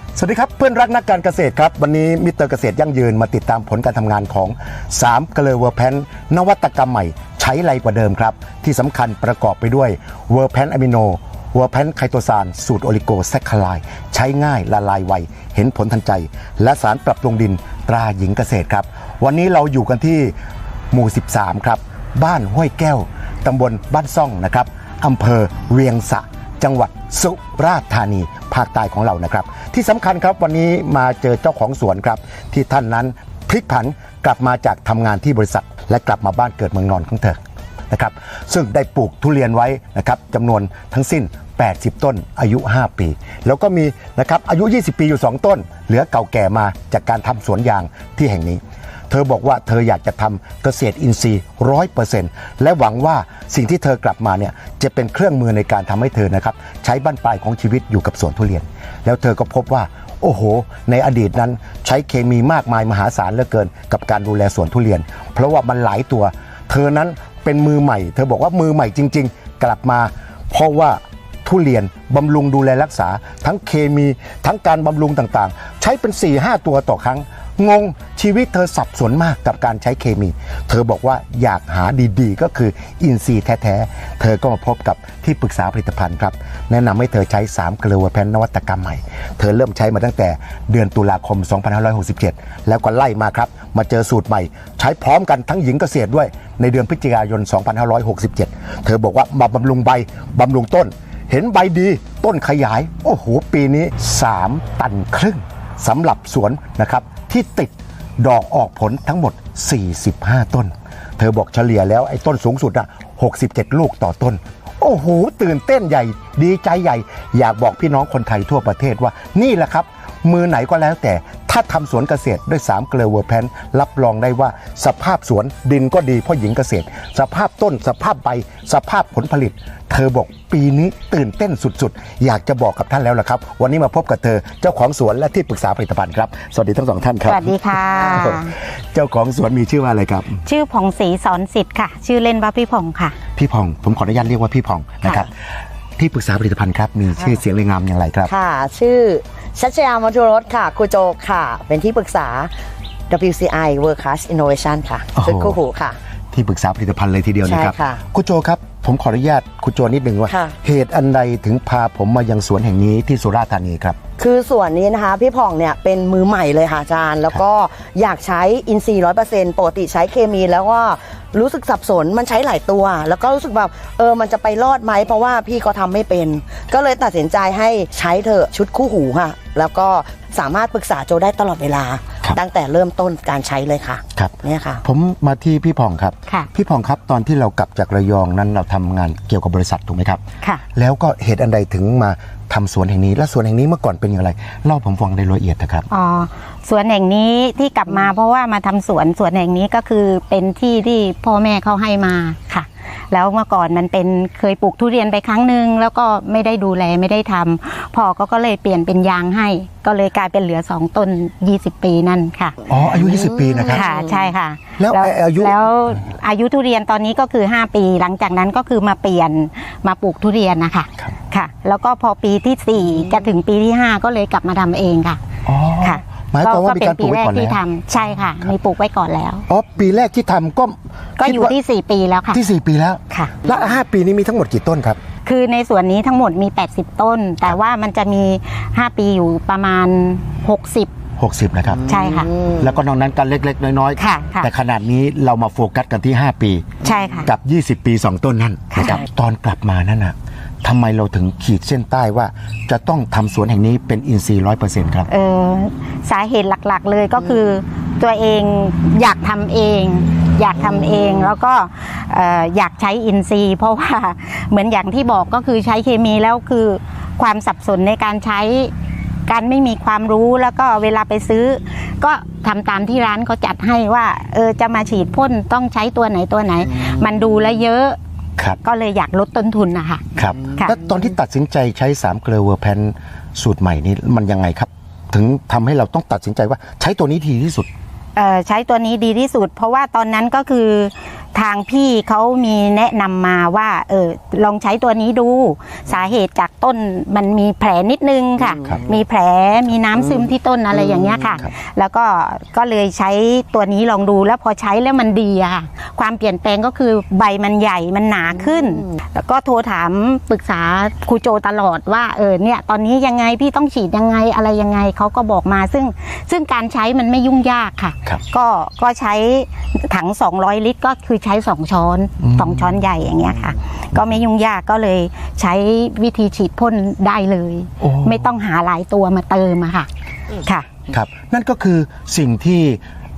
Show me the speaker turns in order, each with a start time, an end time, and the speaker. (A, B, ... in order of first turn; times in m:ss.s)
0:00.2-0:20.3 A
0:20.9-0:37.4 A
0:37.9-2:20.4 A
2:17.2-2:18.5 B
2:20.4-2:23.2 B
2:23.4-2:25.3 A
2:25.0-2:25.3 C
2:26.0-2:28.3 A
2:28.3-2:32.5 C
2:33.1-2:36.0 C
2:35.2-2:35.6 A
2:36.3-2:44.0 A
2:37.4-2:38.0 C
2:40.3-2:40.6 C
2:44.2-3:04.8 C
3:04.2-3:10.2 A
3:10.8-3:15.9 A
3:15.9-3:32.6 B
3:32.7-3:33.9 A
3:33.7-3:45.2 B
3:34.8-3:35.6 A
3:45.5-3:47.6 A
3:45.8-3:49.4 B
3:49.5-3:51.6 A
3:51.2-3:52.4 B
3:52.3-3:55.0 A
3:53.1-3:53.4 B
3:55.2-4:00.9 B
4:01.2-4:01.9 A
4:01.9-4:02.3 B
4:01.9-4:02.6 C
4:02.6-4:15.1 A
4:04.0-4:04.5 B
4:06.8-4:07.3 B
4:08.7-4:09.0 B
4:15.1-4:28.7 B
4:29.3-4:38.0 B
4:38.6-4:40.0 B
4:40.2-4:47.7 A
4:48.2-5:29.9 B
5:22.2-5:22.8 A
5:27.8-5:28.3 A
5:30.9-5:32.8 A